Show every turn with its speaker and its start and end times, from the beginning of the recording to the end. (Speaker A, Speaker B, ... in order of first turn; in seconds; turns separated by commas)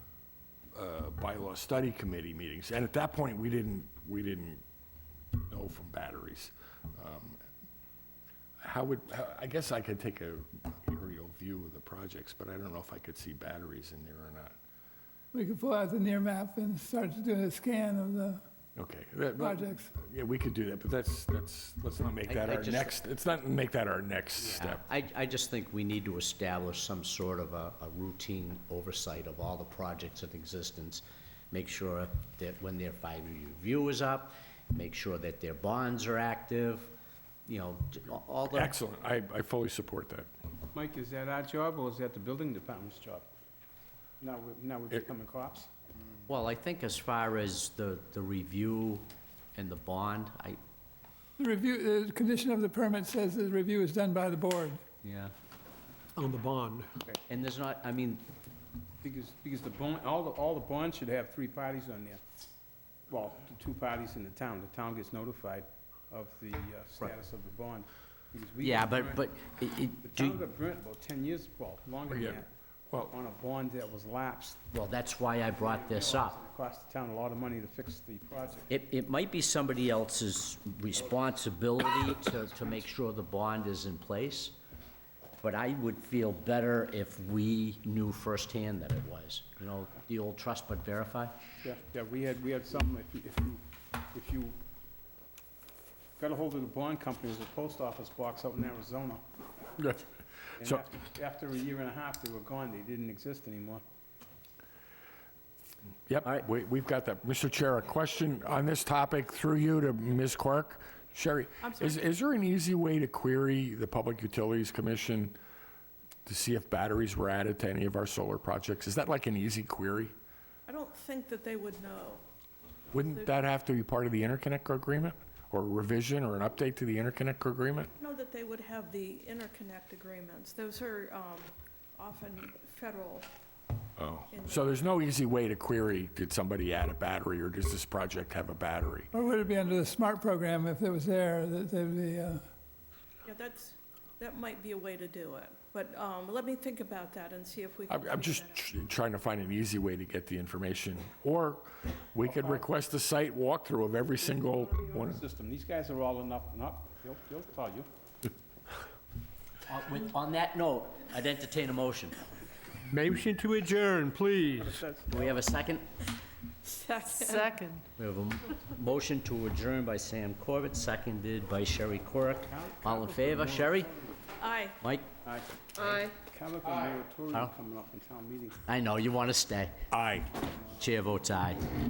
Speaker A: 0.7-4.6, Speaker A: 5.5-7.4, Speaker A: 8.6-14.5, Speaker B: 15.3-18.4, Speaker A: 18.8-24.8, Speaker B: 19.4-19.9, Speaker C: 22.3-22.9, Speaker C: 24.4-36.9, Speaker C: 37.5-38.7, Speaker A: 38.5-40.3, Speaker D: 40.7-43.3, Speaker D: 44.2-45.7, Speaker C: 46.3-50.6, Speaker B: 51.4-54.8, Speaker C: 55.0-55.3, Speaker E: 56.2-56.9, Speaker C: 57.3-58.3, Speaker D: 59.0-62.2, Speaker D: 63.1-69.3, Speaker C: 68.6-70.4, Speaker D: 70.0-74.6, Speaker A: 72.1-73.1, Speaker C: 74.7-76.4, Speaker D: 75.5-78.7, Speaker C: 78.7-84.6, Speaker C: 85.4-91.4, Speaker D: 91.6-94.6, Speaker D: 96.2-99.2, Speaker A: 99.8-100.0, Speaker D: 100.6-103.8, Speaker A: 106.1-115.4, Speaker F: 111.6-112.1, Speaker A: 116.3-120.1, Speaker F: 120.7-122.2, Speaker A: 122.9-127.9, Speaker F: 123.1-123.5, Speaker F: 128.0-133.3, Speaker A: 134.0-139.1, Speaker F: 134.3-134.8, Speaker B: 139.1-142.4, Speaker F: 143.2-148.7, Speaker A: 147.9-155.2, Speaker D: 152.2-152.6, Speaker D: 154.9-157.9, Speaker C: 159.7-162.2, Speaker E: 162.8-164.8, Speaker D: 164.4-165.4, Speaker C: 165.1-165.8, Speaker F: 166.6-167.8, Speaker C: 168.0-173.9, Speaker D: 172.4-173.9, Speaker F: 174.4-174.8, Speaker C: 174.8-175.1, Speaker D: 175.2-178.6, Speaker C: 178.7-179.8, Speaker A: 179.9-180.3, Speaker C: 180.7-181.7